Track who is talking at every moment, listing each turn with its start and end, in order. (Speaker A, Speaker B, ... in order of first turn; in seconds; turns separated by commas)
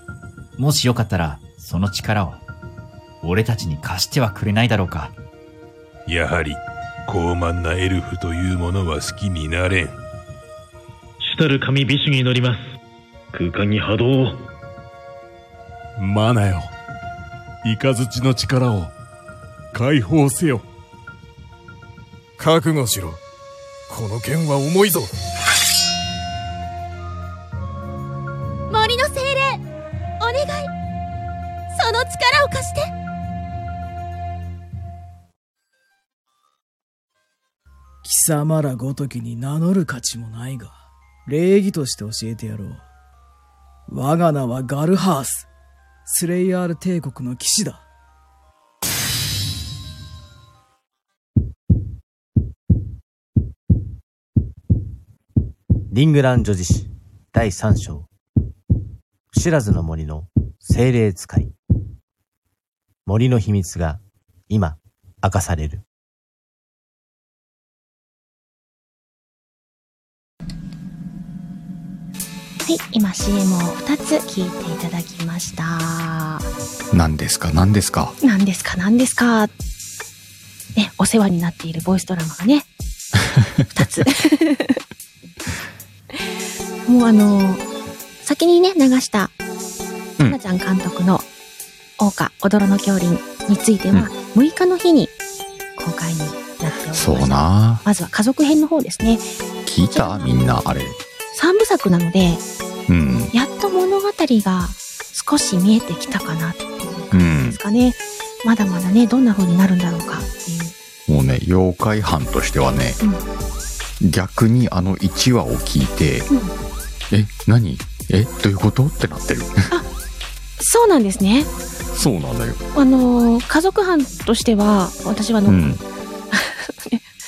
Speaker A: 0.6-2.4, Speaker A: 3.2-5.1, Speaker B: 6.1-9.9, Speaker C: 11.2-12.6, Speaker C: 13.3-14.4, Speaker D: 16.0-16.7, Speaker D: 17.6-18.9, Speaker D: 19.7-20.6, Speaker D: 22.4-23.2, Speaker D: 23.9-25.1, Speaker E: 28.7-29.6, Speaker E: 30.2-30.7, Speaker E: 31.7-32.9, Speaker F: 38.0-42.8, Speaker F: 43.9-45.5, Speaker F: 46.1-47.9, Speaker G: 55.9-58.1, Speaker G: 59.3-61.5, Speaker G: 63.1-65.8, Speaker H: 72.6-76.5, Speaker I: 76.9-78.2, Speaker H: 78.2-79.5, Speaker H: 80.8-82.7, Speaker H: 83.7-84.8, Speaker H: 86.8-87.6, Speaker H: 88.2-89.3, Speaker H: 90.2-91.2, Speaker H: 92.0-95.1, Speaker H: 95.8-99.3, Speaker I: 96.9-97.8, Speaker I: 99.7-101.0, Speaker H: 99.9-100.3, Speaker H: 101.3-102.4, Speaker I: 102.9-103.3, Speaker H: 103.3-110.7, Speaker I: 107.1-107.6, Speaker I: 111.1-113.0, Speaker I: 114.0-116.3, Speaker I: 117.1-119.7, Speaker H: 120.6-121.5, Speaker I: 121.9-122.6, Speaker H: 122.7-125.6, Speaker I: 125.5-125.8, Speaker H: 126.3-127.1